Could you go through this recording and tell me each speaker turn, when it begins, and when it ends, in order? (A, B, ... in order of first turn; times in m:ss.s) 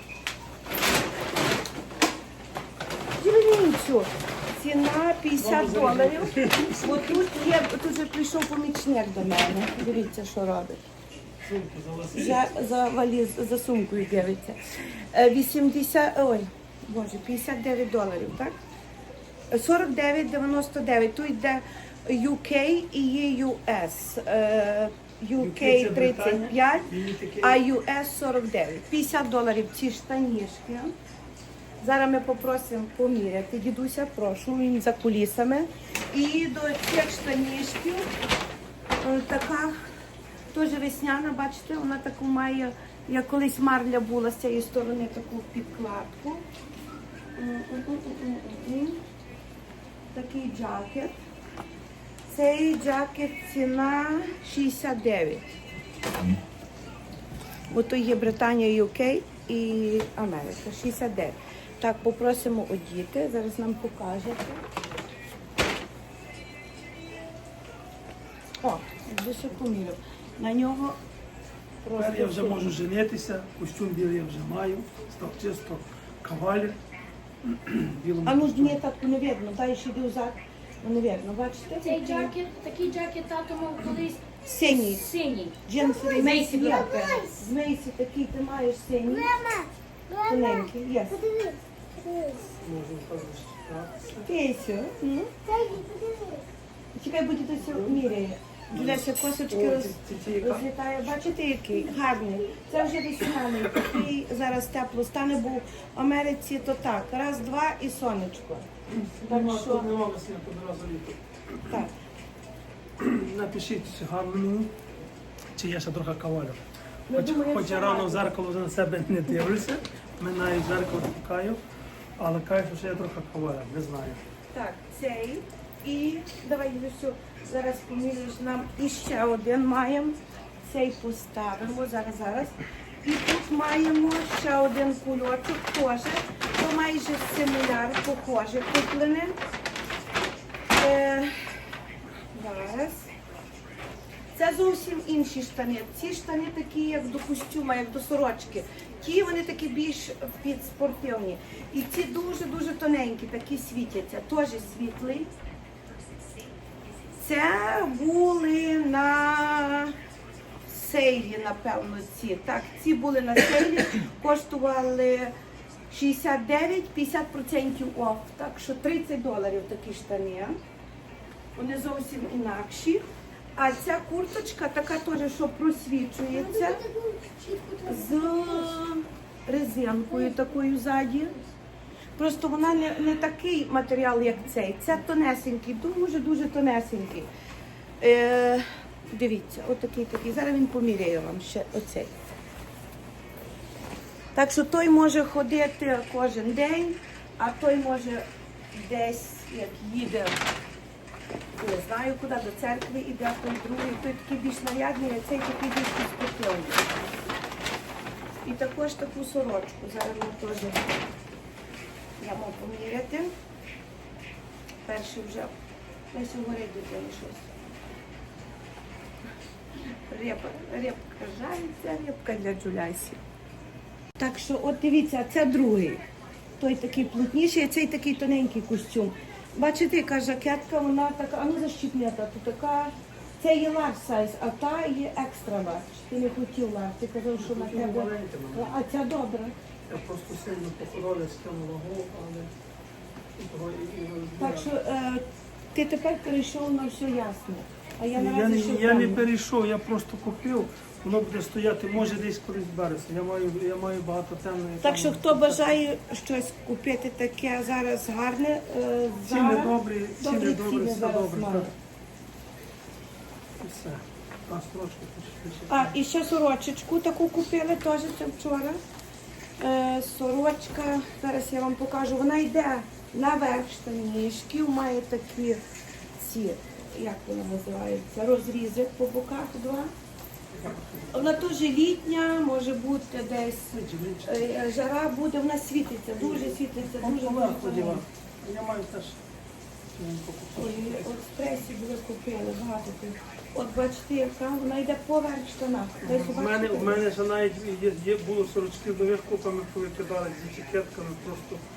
0:03.2-0:10.8 A
0:05.4-0:07.2 B
0:11.4-0:12.5 B
0:12.1-0:18.6 A
0:19.5-0:26.9 A
0:25.4-0:27.6 B
0:27.4-0:30.9 A
0:31.8-0:38.0 A
0:39.0-0:39.8 A
0:40.5-0:46.4 A
0:47.4-0:49.0 A
0:50.1-0:51.2 A
0:52.2-0:55.4 A
0:57.7-1:04.6 A
1:08.6-1:11.0 A
1:11.8-1:12.7 A
1:12.0-1:16.8 B
1:17.4-1:18.8 B
1:18.2-1:22.3 A
1:21.8-1:27.0 C
1:24.4-1:25.1 A
1:25.6-1:29.4 A
1:25.8-1:26.1 D
1:26.6-1:27.3 D
1:29.1-1:32.4 D
1:30.2-1:31.2 A
1:32.6-1:34.3 B
1:34.2-1:35.3 A
1:35.4-1:36.4 D
1:36.9-1:48.7 A
1:37.6-1:38.0 B
1:38.7-1:40.7 B
1:48.9-1:51.8 B
1:49.3-1:49.9 A
1:53.0-1:54.7 B
1:55.6-1:56.6 B
1:57.1-1:58.3 A
1:57.1-2:01.6 B
2:02.2-2:04.2 B
2:04.5-2:19.4 A
2:20.8-2:21.4 A
2:22.3-2:23.1 A
2:24.3-2:35.3 A
2:37.1-2:39.9 A
2:40.6-2:45.3 A
2:45.9-2:50.6 A
2:51.6-2:53.0 A
2:53.6-2:56.8 A
2:56.3-2:58.7 C
2:57.8-3:01.4 A
3:02.2-3:07.3 A
3:08.0-3:12.2 A
3:14.3-3:20.4 A
3:21.6-3:26.9 A
3:28.4-3:30.8 A
3:32.2-3:33.3 A
3:34.8-3:35.5 A
3:36.1-3:37.5 A
3:40.0-3:43.2 A
3:44.2-3:46.0 A
3:46.6-3:59.6 A
3:57.4-3:58.8 B
3:59.9-4:02.5 B
4:03.4-4:04.7 B
4:04.4-4:09.2 A
4:08.1-4:15.7 B
4:14.8-4:21.7 A
4:19.2-4:21.7 B
4:23.6-4:25.9 B
4:25.7-4:28.8 A
4:29.6-4:35.6 A
4:36.2-4:39.9 A
4:40.5-4:41.6 B
4:41.1-4:48.0 A
4:43.7-4:44.4 B
4:46.2-4:49.2 B
4:50.0-4:51.1 B
4:50.6-4:57.0 A
4:56.0-5:01.6 B